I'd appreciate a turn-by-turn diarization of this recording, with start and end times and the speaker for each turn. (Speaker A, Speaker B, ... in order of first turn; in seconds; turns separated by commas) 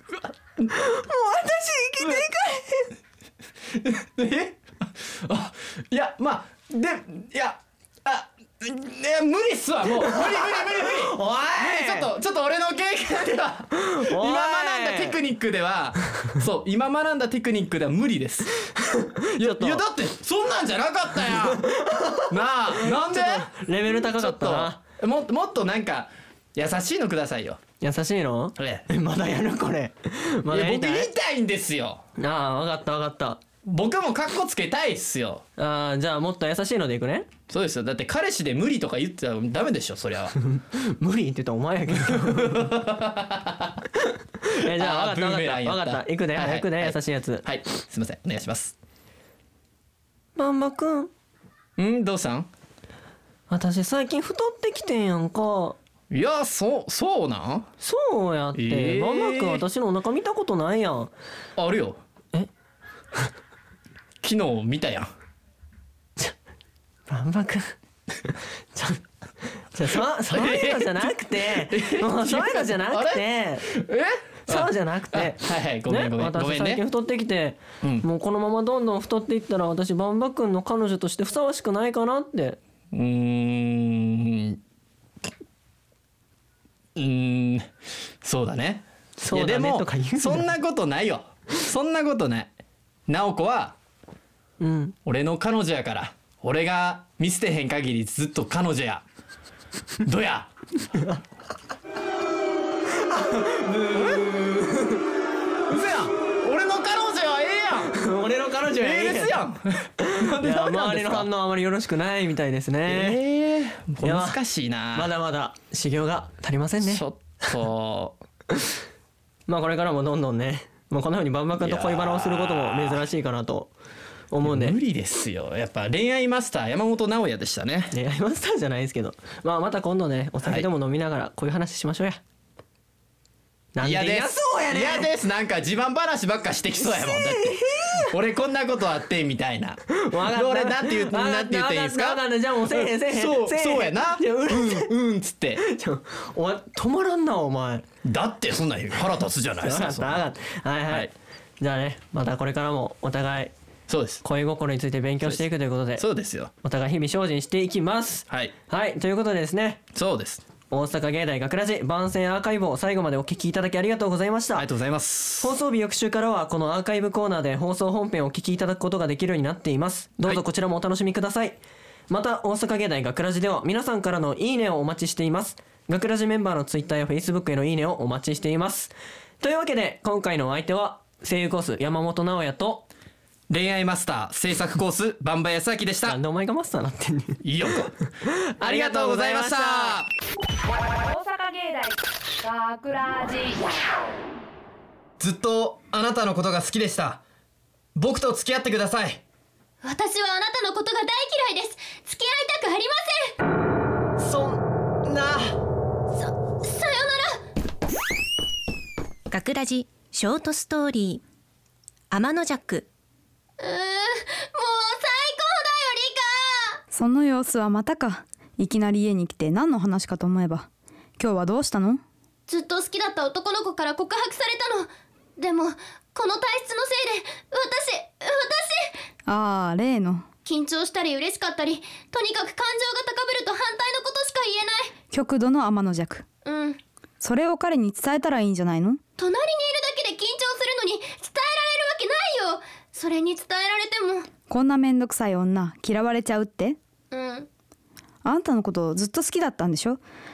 Speaker A: 0.7-2.9, Speaker B: 3.8-18.5, Speaker A: 10.0-12.1, Speaker A: 13.7-15.2, Speaker A: 18.9-19.8, Speaker B: 19.4-21.6, Speaker A: 21.3-24.8, Speaker B: 22.3-27.6, Speaker A: 27.8-31.1, Speaker B: 28.6-28.9, Speaker B: 30.5-32.0, Speaker A: 32.2-33.4, Speaker B: 33.6-35.4, Speaker A: 35.6-37.3, Speaker B: 37.5-40.4, Speaker A: 40.5-42.7, Speaker B: 41.9-43.8, Speaker A: 44.4-47.4, Speaker B: 44.5-48.8, Speaker A: 50.4-51.1, Speaker B: 51.8-52.5, Speaker A: 53.5-55.8, Speaker B: 56.1-57.7, Speaker A: 57.8-61.1, Speaker B: 58.5-59.6, Speaker B: 61.6-62.0, Speaker B: 64.2-65.1, Speaker A: 67.1-67.8, Speaker A: 68.7-69.0, Speaker A: 69.7-73.7, Speaker B: 70.3-76.8, Speaker A: 74.5-82.6, Speaker B: 82.9-84.6, Speaker B: 87.0-87.7, Speaker B: 88.2-92.5, Speaker A: 89.2-90.5, Speaker B: 93.1-93.8, Speaker A: 94.6-95.0, Speaker B: 95.0-99.0, Speaker B: 100.0-100.5, Speaker A: 103.0-105.0, Speaker B: 105.7-107.9, Speaker A: 107.9-109.4, Speaker B: 108.8-111.3, Speaker A: 110.0-113.2, Speaker B: 112.8-115.1, Speaker A: 114.0-114.4, Speaker A: 114.9-117.5, Speaker B: 116.8-118.2, Speaker A: 119.5-123.7, Speaker B: 121.6-123.0, Speaker A: 124.3-124.8, Speaker B: 124.4-127.9, Speaker A: 127.9-132.2, Speaker A: 133.7-135.1, Speaker B: 133.8-145.6, Speaker A: 136.8-138.1, Speaker A: 139.9-144.9, Speaker A: 145.6-147.8, Speaker B: 148.0-150.3, Speaker A: 149.6-153.5, Speaker B: 153.9-154.2, Speaker A: 154.2-156.0, Speaker B: 156.0-156.5, Speaker A: 156.6-159.8, Speaker B: 158.3-158.5, Speaker B: 159.9-160.4, Speaker A: 160.7-164.7, Speaker B: 164.5-165.5, Speaker A: 165.4-182.9, Speaker B: 183.5-186.2, Speaker A: 186.1-187.4, Speaker B: 187.4-187.9, Speaker A: 188.4-190.0, Speaker B: 188.6-190.1, Speaker C: 191.1-193.6, Speaker B: 195.2-197.2, Speaker B: 197.9-199.2, Speaker D: 199.8-203.3, Speaker B: 204.2-205.6, Speaker D: 206.2-207.4, Speaker E: 209.3-211.2, Speaker E: 212.1-212.9, Speaker D: 213.6-216.8, Speaker F: 216.9-220.7, Speaker F: 221.2-222.0, Speaker D: 222.5-228.9, Speaker F: 229.2-230.2, Speaker D: 230.4-234.9, Speaker F: 235.1-236.2, Speaker D: 236.4-236.8, Speaker F: 237.2-239.0, Speaker D: 239.2-244.3, Speaker F: 244.5-246.8, Speaker D: 247.1-247.5, Speaker F: 248.2-250.0